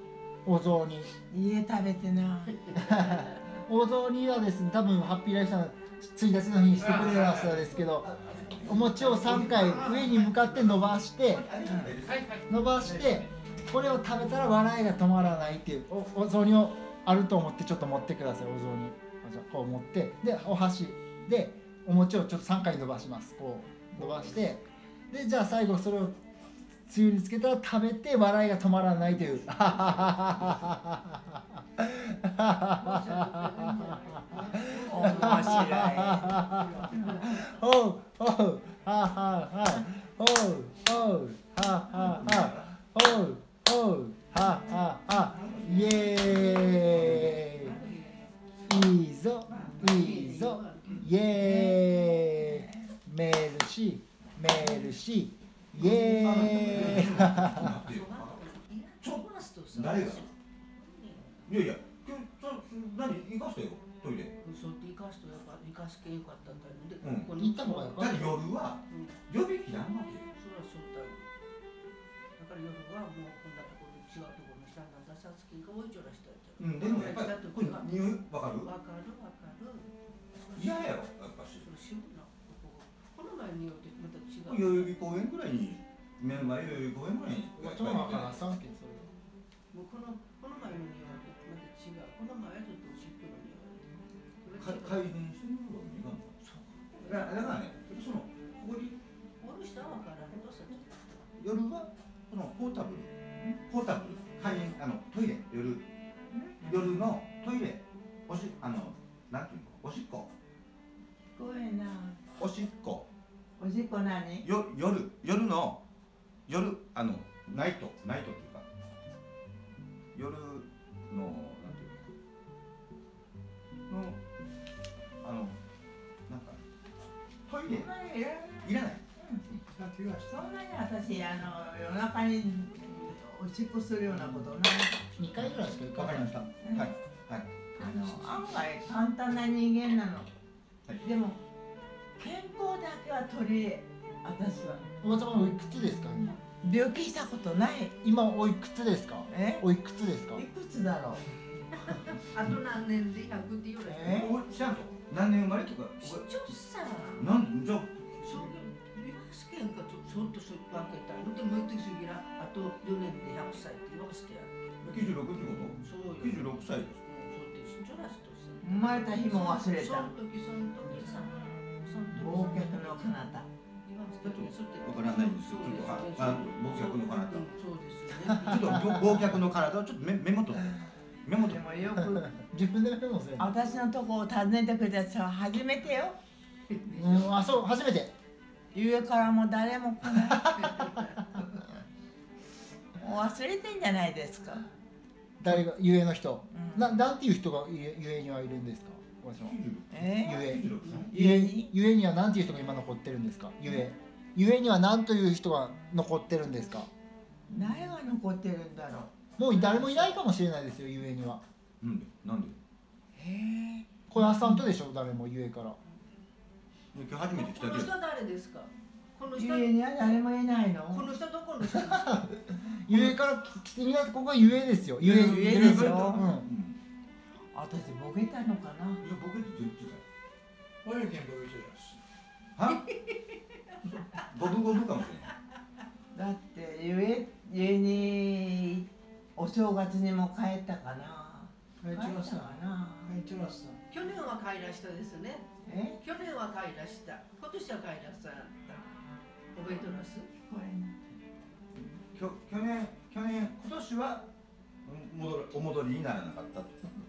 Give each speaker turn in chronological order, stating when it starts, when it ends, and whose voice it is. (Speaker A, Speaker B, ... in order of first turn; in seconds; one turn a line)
Speaker A: 0.5-1.1
Speaker B: 1.3-2.8
Speaker A: 2.8-8.1
Speaker C: 7.0-10.6
Speaker A: 8.6-11.5
Speaker C: 11.2-12.4
Speaker A: 12.5-26.2
Speaker A: 26.9-33.4
Speaker D: 32.6-37.5
Speaker A: 34.3-47.7
Speaker B: 34.9-37.2
Speaker C: 41.9-42.7
Speaker C: 45.3-47.5
Speaker D: 45.4-48.8
Speaker A: 48.6-57.8
Speaker D: 49.5-51.4
Speaker B: 51.4-52.8
Speaker C: 55.8-58.4
Speaker B: 56.1-56.6
Speaker D: 56.5-61.5
Speaker C: 59.0-60.3
Speaker C: 61.5-64.3
Speaker D: 64.4-68.3
Speaker C: 67.0-67.3
Speaker A: 67.3-68.3
Speaker C: 67.9-70.3
Speaker D: 68.9-69.2
Speaker D: 70.3-71.3
Speaker D: 72.4-78.0
Speaker C: 76.6-78.7
Speaker D: 78.6-79.9
Speaker D: 80.5-80.9
Speaker C: 80.5-81.7
Speaker D: 81.5-85.0
Speaker C: 84.5-88.4
Speaker A: 87.6-89.1
Speaker D: 89.7-93.9
Speaker D: 94.4-95.1
Speaker C: 94.6-96.4
Speaker D: 96.5-97.6
Speaker C: 97.0-99.0
Speaker D: 99.4-100.9
Speaker C: 101.4-103.1
Speaker C: 103.6-105.8
Speaker B: 106.3-106.7
Speaker C: 106.6-110.3
Speaker B: 111.3-112.2
Speaker C: 112.4-113.1
Speaker B: 113.6-114.5
Speaker C: 114.4-115.8
Speaker C: 116.5-118.6
Speaker C: 120.1-122.1
Speaker C: 123.9-124.2
Speaker C: 125.2-125.6
Speaker C: 126.3-126.6
Speaker C: 127.5-127.9
Speaker B: 127.7-129.4
Speaker C: 128.6-129.0
Speaker E: 129.7-130.3
Speaker B: 130.2-135.0
Speaker C: 134.1-134.4
Speaker A: 135.2-136.5
Speaker C: 135.4-138.6
Speaker B: 136.6-136.9
Speaker B: 137.8-140.3
Speaker B: 141.0-141.4
Speaker B: 142.2-144.9
Speaker A: 145.0-146.4
Speaker B: 146.6-147.9
Speaker A: 148.0-150.4
Speaker B: 149.3-149.6
Speaker B: 150.3-151.2
Speaker D: 151.8-154.3
Speaker B: 153.8-154.3
Speaker C: 154.1-156.3
Speaker D: 156.0-157.4
Speaker C: 157.2-158.5
Speaker D: 158.2-164.9
Speaker C: 164.8-167.0
Speaker D: 165.8-173.2
Speaker B: 168.6-170.1
Speaker B: 172.1-173.5
Speaker D: 173.8-179.0
Speaker C: 174.2-177.6
Speaker C: 178.3-181.8
Speaker B: 181.4-182.3
Speaker A: 182.1-183.5
Speaker B: 183.4-186.2
Speaker D: 186.7-187.7
Speaker A: 186.9-188.1
Speaker B: 188.7-190.7
Speaker A: 190.3-190.6
Speaker D: 190.5-191.4
Speaker B: 193.0-194.7
Speaker A: 195.4-199.6
Speaker B: 196.5-197.0
Speaker C: 199.4-201.1
Speaker B: 199.9-200.5
Speaker A: 200.2-206.9
Speaker D: 200.8-201.1
Speaker B: 201.1-201.7
Speaker B: 207.5-209.1
Speaker A: 209.4-211.4
Speaker D: 209.5-210.1
Speaker C: 211.8-212.6
Speaker B: 213.2-214.6
Speaker A: 214.1-215.8
Speaker C: 216.9-217.9
Speaker D: 217.3-220.2
Speaker B: 219.3-221.1
Speaker D: 220.9-222.3
Speaker A: 221.8-226.5
Speaker C: 225.0-226.8
Speaker B: 225.0-226.2
Speaker B: 227.5-229.0
Speaker C: 229.0-230.0
Speaker E: 230.8-232.0
Speaker C: 232.6-232.9
Speaker D: 232.9-233.2
Speaker D: 233.7-234.2
Speaker C: 234.2-235.3
Speaker B: 236.1-243.1
Speaker E: 241.8-242.5
Speaker E: 243.0-243.8
Speaker D: 243.9-245.5
Speaker B: 245.7-246.0
Speaker D: 246.0-248.8
Speaker D: 249.5-250.3
Speaker B: 249.6-250.9
Speaker C: 251.8-254.2
Speaker C: 254.8-256.9